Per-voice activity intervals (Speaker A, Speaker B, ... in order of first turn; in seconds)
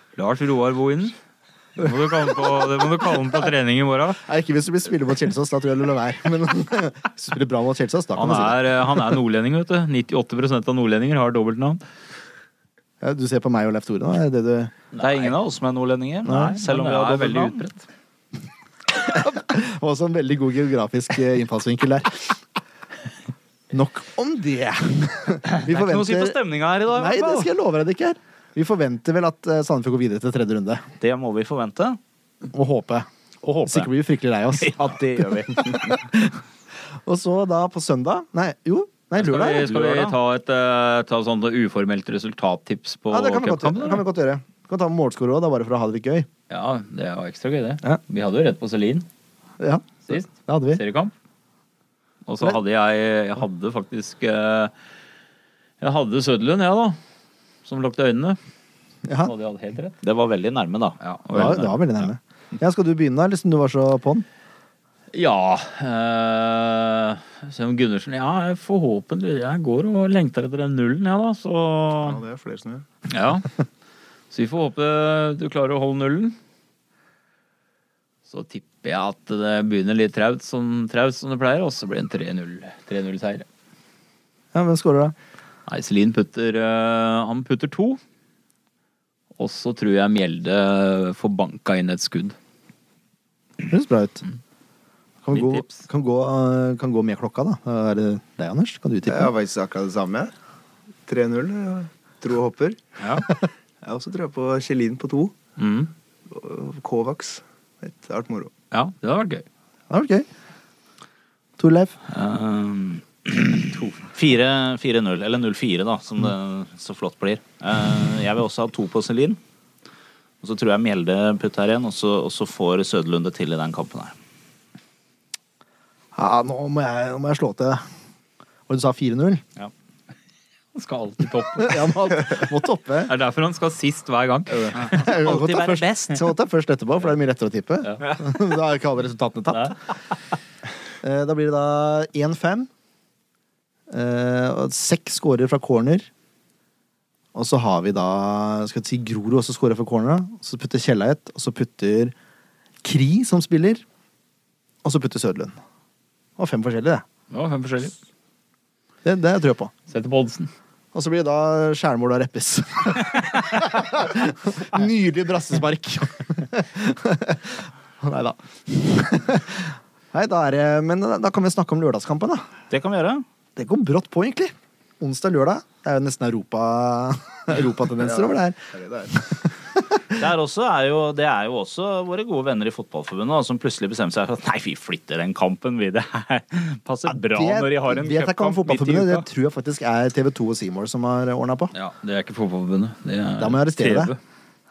Speaker A: 0.1-1.1, 1.8-4.2, 8.2-11.8, 14.9-15.3, 16.3-17.8, 39.2-44.0, 46.5-49.1, 50.1-51.1, 52.2-54.7, 55.8-57.0, 57.6-58.4, 59.2-60.0, 61.0-61.8, 65.1-72.2, 73.1-73.5, 74.3-76.3, 78.3-83.5, 85.7-88.0, 89.4-92.3, 95.3-95.8, 103.0-103.2, 105.6-105.9, 108.7-109.5, 130.7-132.0, 133.1-135.0, 157.3-157.9, 159.9-160.5, 191.7-194.2
Speaker B: 4.2-8.7, 13.0-14.7, 16.2-16.6, 19.0-22.4, 23.7-26.4, 26.9-30.9, 32.5-33.1, 33.6-36.4, 37.0-39.7, 43.1-46.3, 49.6-50.8, 59.0-59.3, 61.3-64.2, 84.5-85.1, 93.6-94.2, 95.2-99.3, 109.9-110.2, 111.6-112.0, 126.1-127.8, 128.7-129.4, 131.6-133.1, 134.8-139.8, 141.0-142.7, 143.9-146.1, 147.3-152.1, 152.8-153.8, 154.8-155.6, 156.4-157.0, 159.0-159.7, 160.9-172.5, 173.6-178.6, 179.1-180.0, 187.1-191.7, 193.4-194.1
Speaker C: 15.0-17.6, 25.5-27.5, 31.0-32.0, 33.4-33.9, 34.6-36.0, 39.2-40.2, 60.0-61.6, 112.1-119.4, 120.4-124.1, 134.8-136.2, 172.7-173.2, 180.1-189.2
Speaker D: 72.0-72.8, 99.0-100.3, 101.1-103.2, 103.8-105.3, 106.3-108.5, 178.0-179.1